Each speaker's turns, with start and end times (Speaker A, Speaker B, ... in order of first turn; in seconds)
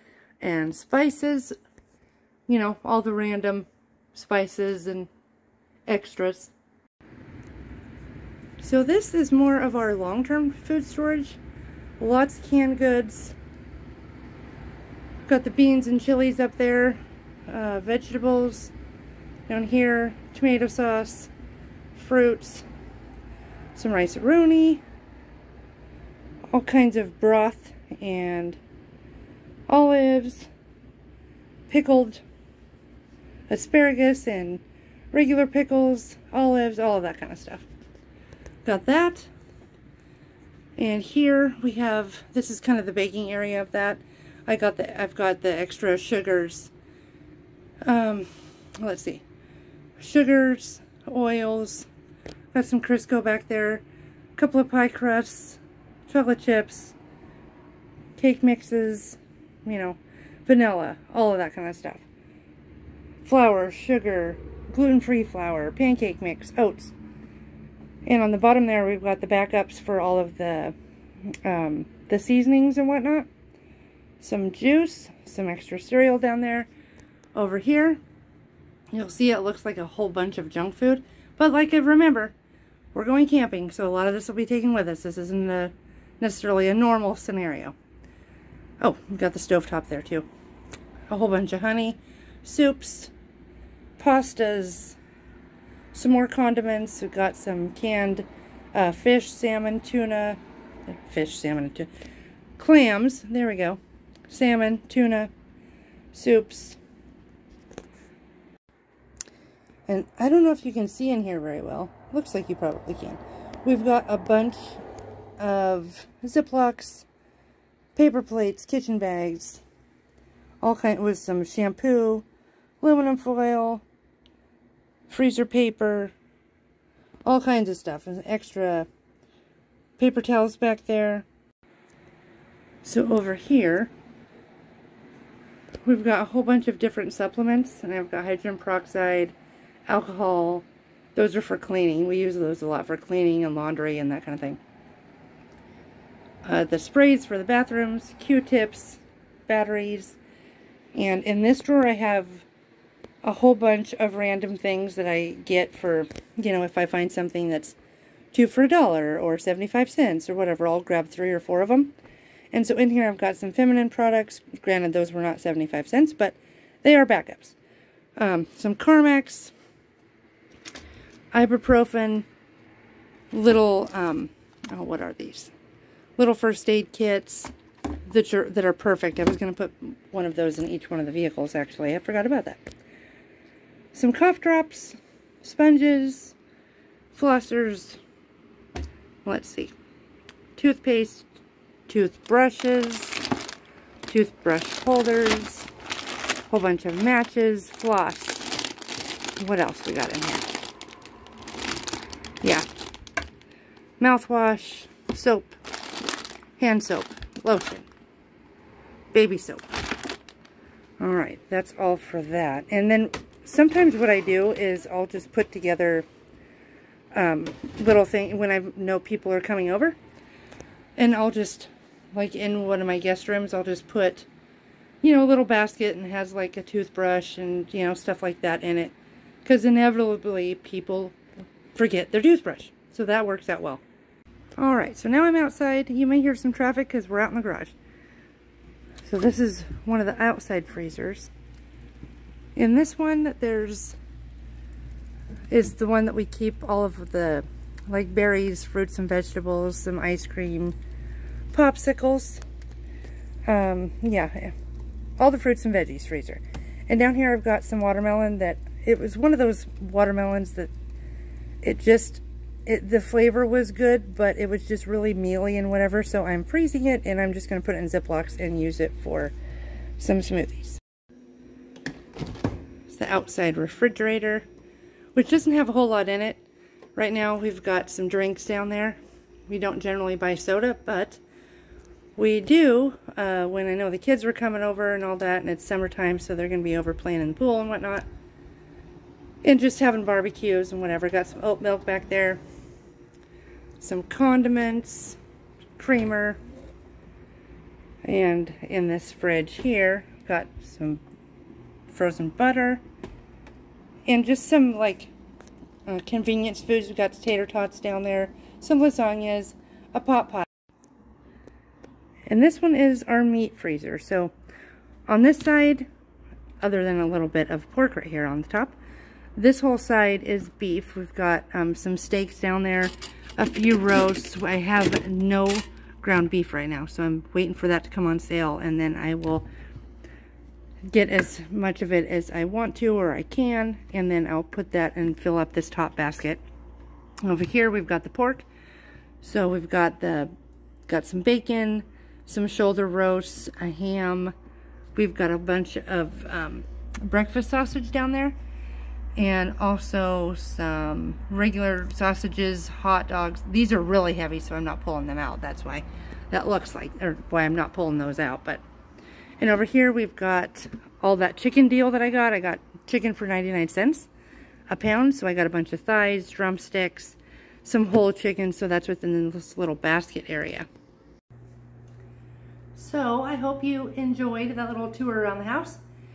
Speaker A: 0.4-1.5, 2.5-5.1, 5.9-6.5, 8.6-11.4, 12.0-13.3, 15.2-18.7, 19.5-21.3, 21.9-22.6, 23.8-24.8, 26.5-28.6, 29.7-30.5, 31.7-32.2, 33.5-37.7, 38.6-39.3, 40.8-46.7, 47.8-49.2, 50.0-51.9, 52.5-53.8, 54.4-56.9, 58.2-62.0, 63.2-66.9, 68.0-70.8, 71.4-73.3, 74.2-76.7, 77.3-78.0, 78.9-82.3, 82.9-87.7, 88.8-90.3, 91.1-93.1, 94.0-95.0, 95.9-101.9, 102.6-105.3, 106.1-106.8, 109.9-114.8, 115.4-117.1, 117.9-119.6, 120.6-122.2, 122.8-123.8, 125.1-126.1, 127.2-128.9, 130.0-131.3, 132.8-133.9, 135.8-139.3, 139.9-144.6, 146.4-150.2, 150.9-152.5, 153.2-157.8, 158.3-161.9, 162.5-167.6, 168.2-169.5, 171.3-172.2, 173.3-175.5, 176.2-177.5, 178.1-182.6, 183.9-186.3, 187.1-188.0, 189.2-189.7, 190.6-191.3, 191.9-193.2, 194.1-195.7, 196.5-198.5, 199.4-200.6, 202.4-202.7, 204.0-205.6, 206.6-207.9, 209.1-209.6, 211.0-216.1, 217.1-220.0, 221.0-224.3, 225.0-231.2, 231.7-233.8, 234.6-237.7, 239.0-241.3, 242.6-244.0, 245.5-250.7, 251.5-252.4, 253.4-254.6, 255.2-260.7, 261.6-269.3, 270.0-270.8, 272.9-274.4, 275.1-276.4, 276.9-281.2, 282.2-288.1, 289.4-292.4, 293.8-295.2, 295.8-296.4, 298.0-301.0, 301.9-302.8, 304.1-305.1, 305.9-310.5, 312.3-314.3, 315.1-315.9, 316.6-318.8, 319.4-329.5, 330.9-336.4, 337.2-338.5, 339.2-340.3, 340.9-344.3, 344.9-348.3, 349.2-358.6, 359.4-364.1, 364.7-370.7, 372.8-375.8